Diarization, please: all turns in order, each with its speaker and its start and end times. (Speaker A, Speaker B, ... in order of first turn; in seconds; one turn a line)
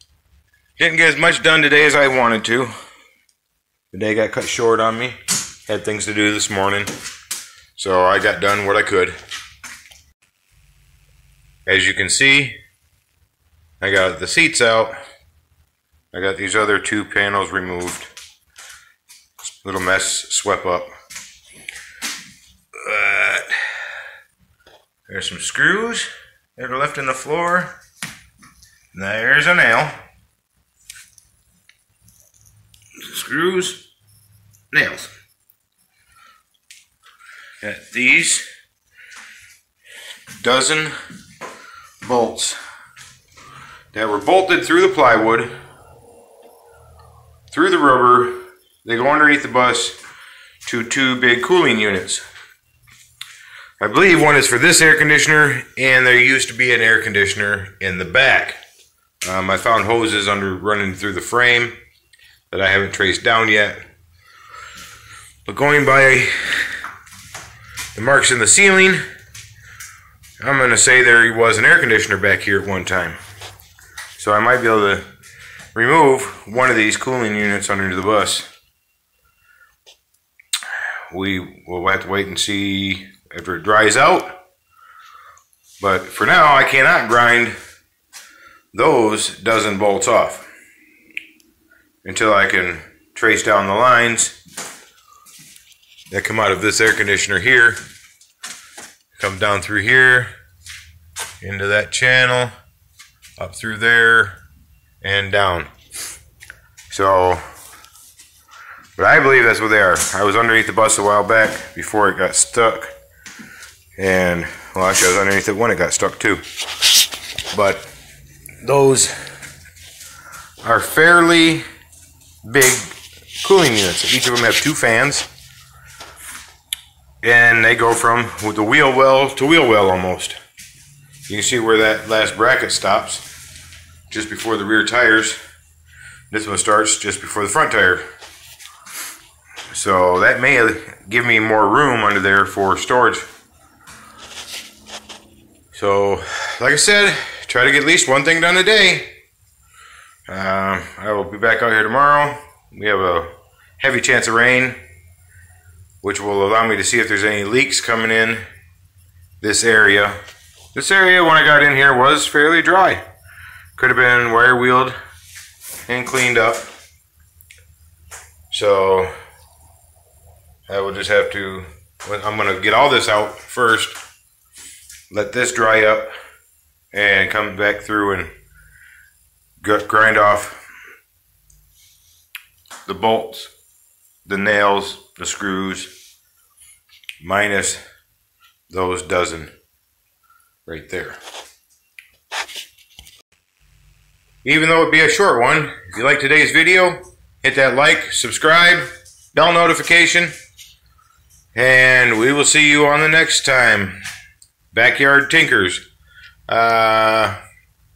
Speaker A: 0.8-2.7
Speaker A: 3.9-6.9
Speaker A: 7.8-9.1
Speaker A: 11.7-12.6
Speaker A: 13.8-14.9
Speaker A: 16.1-18.1
Speaker A: 19.5-20.9
Speaker A: 22.8-23.7
Speaker A: 25.1-27.7
Speaker A: 28.9-29.9
Speaker A: 33.0-33.8
Speaker A: 34.7-35.1
Speaker A: 37.6-38.4
Speaker A: 40.4-40.9
Speaker A: 42.0-42.6
Speaker A: 43.9-45.5
Speaker A: 47.5-50.0
Speaker A: 50.6-52.2
Speaker A: 53.8-58.6
Speaker A: 59.2-61.8
Speaker A: 62.5-63.8
Speaker A: 65.5-66.7
Speaker A: 67.9-69.0
Speaker A: 70.4-73.2
Speaker A: 74.2-75.0
Speaker A: 75.7-78.5
Speaker A: 81.1-84.4
Speaker A: 85.8-87.5
Speaker A: 88.7-90.5
Speaker A: 92.0-94.3
Speaker A: 96.1-97.8
Speaker A: 99.1-100.3
Speaker A: 101.4-102.5
Speaker A: 103.4-104.4
Speaker A: 105.0-105.7
Speaker A: 106.9-107.4
Speaker A: 109.0-112.9
Speaker A: 114.0-116.4
Speaker A: 117.5-117.9
Speaker A: 118.6-119.1
Speaker A: 120.6-121.6
Speaker A: 122.4-125.3
Speaker A: 127.2-130.4
Speaker A: 131.3-133.2
Speaker A: 134.1-135.4
Speaker A: 136.3-138.0
Speaker A: 139.7-143.2
Speaker A: 145.7-149.1
Speaker A: 150.3-154.8
Speaker A: 156.0-158.4
Speaker A: 159.4-160.2
Speaker A: 160.7-163.0
Speaker A: 163.8-164.9
Speaker A: 165.8-166.7
Speaker A: 168.5-169.1
Speaker A: 170.7-173.9
Speaker A: 175.1-176.1
Speaker A: 176.9-178.3
Speaker A: 179.6-180.6
Speaker A: 182.9-183.5
Speaker A: 184.2-185.9
Speaker A: 187.2-187.8
Speaker A: 188.7-189.5
Speaker A: 190.7-191.2
Speaker A: 194.4-200.3
Speaker A: 201.5-204.0
Speaker A: 204.7-205.8
Speaker A: 206.5-207.4